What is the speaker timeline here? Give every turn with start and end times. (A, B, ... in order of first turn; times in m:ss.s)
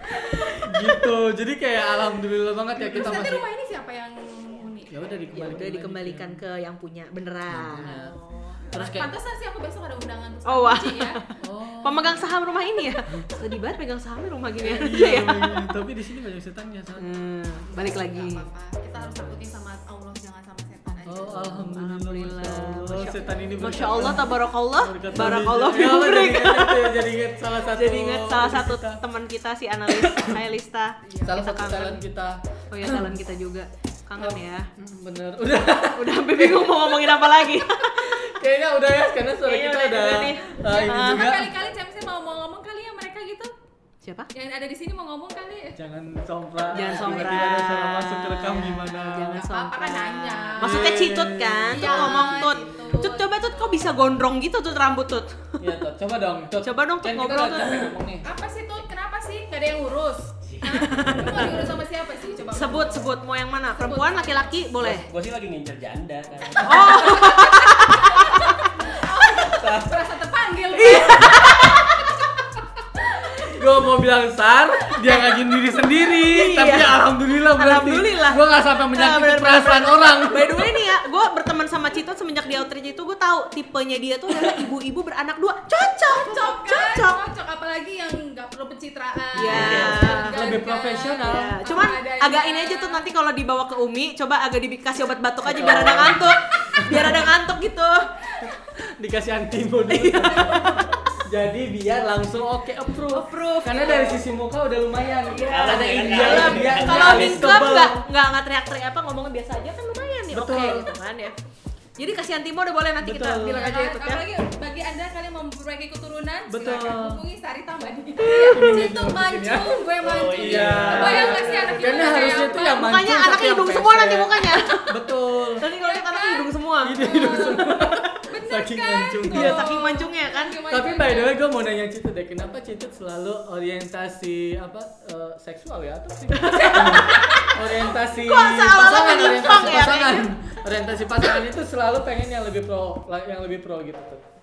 0:00.6-0:03.4 A
0:02.8-0:05.2 B
0:04.9-0:06.4 A
0:05.3-0:08.0 C
0:07.5-0:08.1 A
0:07.9-0:11.2 B
0:08.7-0:09.1 A
0:10.5-0:11.2 C
0:11.4-0:12.3 A
0:11.8-0:15.6 C
0:14.6-0:17.1 A
0:17.0-0:18.4 C
0:17.6-0:21.8 B
0:19.0-0:19.4 A
0:21.1-0:29.0 A
0:21.4-0:27.0 C
0:23.0-0:24.4 B
0:27.6-0:32.0 C
0:29.9-0:30.4 A
0:31.1-0:31.3 B
0:31.2-0:33.1 A
0:32.7-0:34.7 C
0:34.2-0:37.1 A
0:36.0-0:38.1 C
0:38.0-0:41.5 A
0:39.4-0:41.3 C
0:40.6-0:43.5 B
0:44.0-0:44.3 C
0:44.3-0:45.8 B
0:45.8-0:49.4 A
0:46.7-0:55.6 C
0:46.9-0:47.3 B
0:49.3-0:51.2 B
0:50.6-0:53.1 A
0:51.7-0:54.1 B
0:55.6-0:58.3 A
0:56.6-0:58.0 C
0:58.2-1:03.2 B
1:00.4-1:01.5 D
1:00.8-1:01.6 C
1:02.5-1:05.1 C
1:03.8-1:04.6 B
1:04.8-1:06.8 D
1:06.6-1:08.3 C
1:06.6-1:11.6 B
1:06.7-1:07.0 A
1:08.9-1:09.5 C
1:09.4-1:09.9 A
1:10.8-1:12.0 C
1:13.5-1:20.7 A
1:15.1-1:15.4 C
1:16.2-1:27.2 C
1:26.1-1:33.1 B
1:29.4-1:30.4 C
1:29.4-1:31.6 A
1:29.4-1:30.0 D
1:31.2-1:38.3 C
1:35.4-1:37.3 A
1:38.4-1:48.0 A
1:39.9-1:40.8 C
1:43.1-1:44.2 C
1:45.3-1:51.4 C
1:45.3-1:47.9 D
1:50.3-1:50.9 A
1:52.0-1:54.2 C
1:53.0-1:53.6 A
1:53.1-2:03.0 B
1:56.5-1:57.2 A
1:58.3-1:58.7 C
1:58.4-2:05.6 A
2:00.0-2:02.1 D
2:02.0-2:05.0 C
2:05.6-2:07.6 C
2:05.7-2:06.5 B
2:06.8-2:09.7 A
2:07.0-2:11.4 B
2:09.3-2:10.6 C
2:10.7-2:24.2 A
2:16.4-2:20.3 C
2:16.6-2:17.5 B